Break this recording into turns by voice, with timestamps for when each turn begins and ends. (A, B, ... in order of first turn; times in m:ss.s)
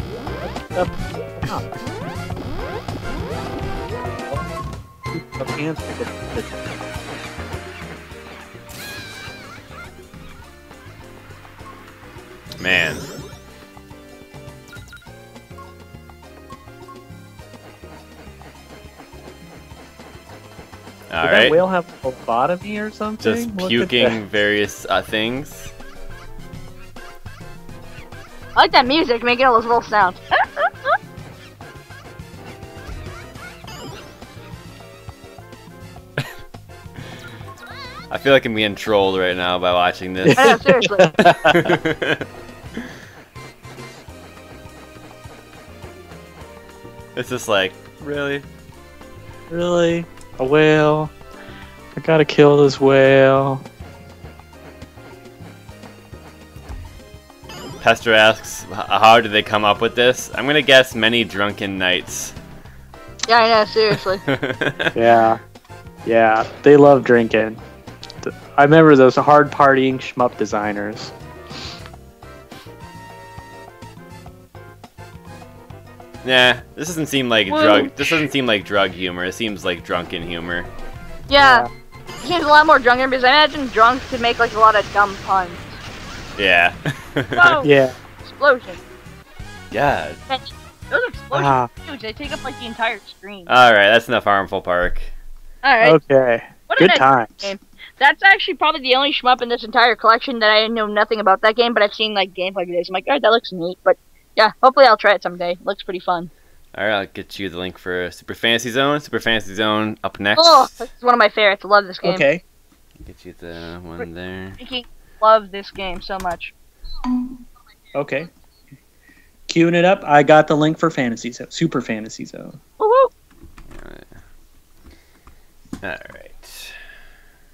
0:00.4-0:01.7 A
0:05.1-0:06.6 A
0:12.6-0:13.0 B
0:21.1-0:21.6 B
0:21.2-0:24.2 A
0:23.2-0:25.7 B
0:28.6-0:30.9 C
0:38.1-0:40.6 B
0:40.2-0:41.8 A
0:40.4-0:41.2 C
0:41.5-0:42.3 B
0:47.1-0:48.4 B
0:49.5-0:51.1 A
0:51.9-0:53.6 A
0:57.8-1:02.3 B
1:03.3-1:04.2 C
1:04.2-1:05.0 B
1:05.0-1:05.4 A
1:06.0-1:07.6 A
1:08.2-1:11.1 A
1:16.2-1:20.7 B
1:17.5-1:18.2 C
1:21.3-1:21.7 C
1:21.4-1:21.7 A
1:22.2-1:25.8 C
1:26.4-1:27.6 B
1:27.3-1:27.7 C
1:27.6-1:28.0 A
1:28.2-1:28.8 C
1:29.7-1:30.2 B
1:30.3-1:33.5 C
1:31.3-1:31.7 A
1:33.5-1:35.1 B
1:35.6-1:36.0 C
1:35.8-1:37.5 A
1:36.7-1:46.3 C
1:46.7-1:50.8 B
1:50.4-1:52.2 C
1:52.0-1:52.4 A
1:53.0-1:54.6 B
1:54.6-1:56.5 C
1:57.9-1:58.3 A
1:59.5-2:02.6 A
2:02.8-2:03.1 C
2:03.7-2:04.1 B
2:05.8-2:06.8 B